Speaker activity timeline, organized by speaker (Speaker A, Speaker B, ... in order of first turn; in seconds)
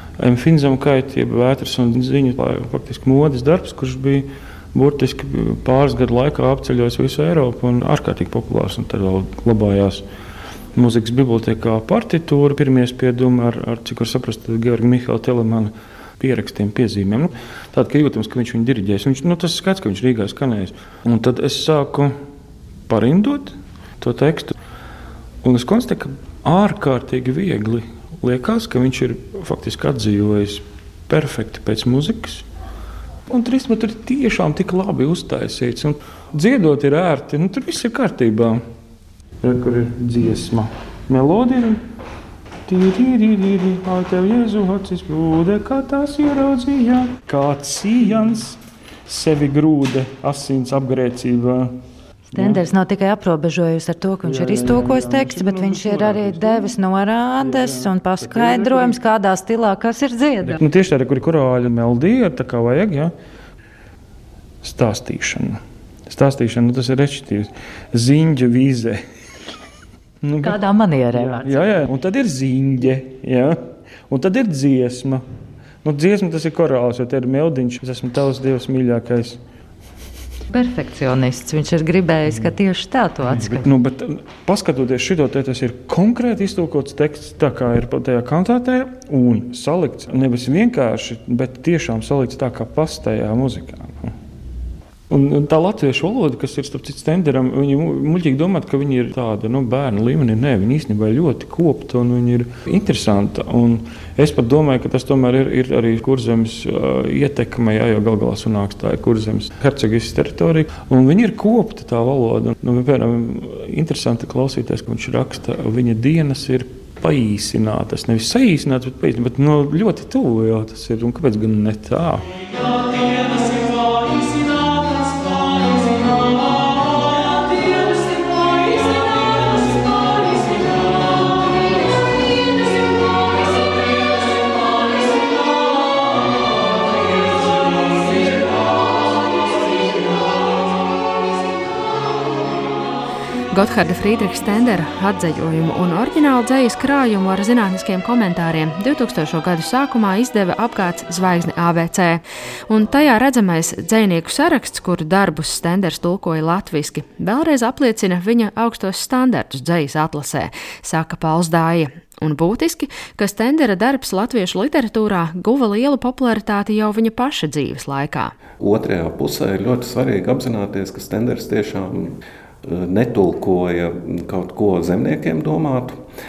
Speaker A: 0.2-10.0, 10.8-22.1, 22.9-24.6, 25.4-32.5, 33.3-38.6, 39.4-41.8, 42.7-51.8, 52.4-52.6, 54.2-56.7, 57.4-59.0, 60.4-63.1, 64.6-69.0, 70.2-70.6, 71.1-75.2, 75.8-79.4, 83.2-94.1, 95.1-122.3
Speaker B: 52.3-60.6, 70.4-71.7, 80.5-83.7
Speaker C: 143.5-168.3
Speaker D: 168.6-176.0